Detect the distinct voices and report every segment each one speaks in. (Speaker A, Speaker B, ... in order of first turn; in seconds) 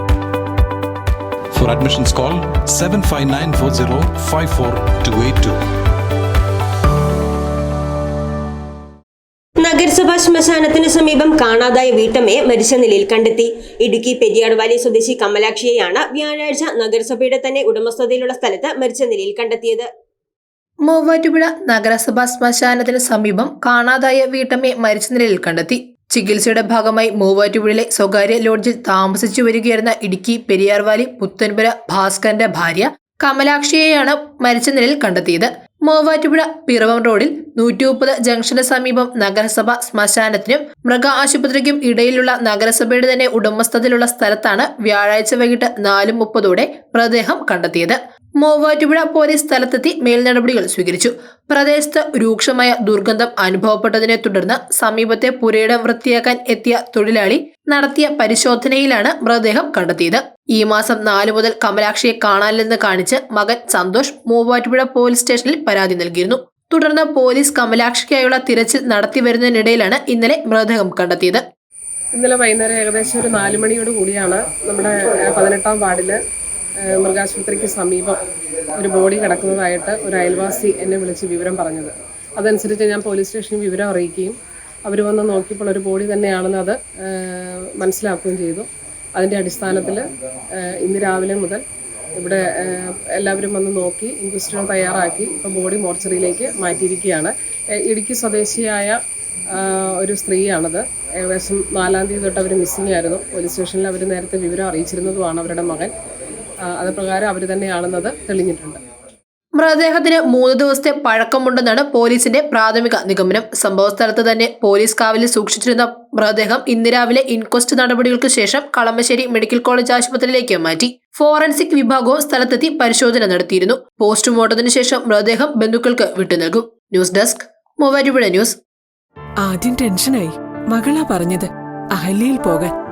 Speaker A: 1.6-5.6
Speaker B: 9.6-19.9
Speaker C: 20.9-71.4, 109.6-128.6
Speaker D: 72.1-76.2, 76.9-78.2, 78.8-90.0, 90.7-91.6, 92.2-97.3, 97.8-99.0, 99.5-105.9, 106.7-108.8
Speaker E: 129.4-132.7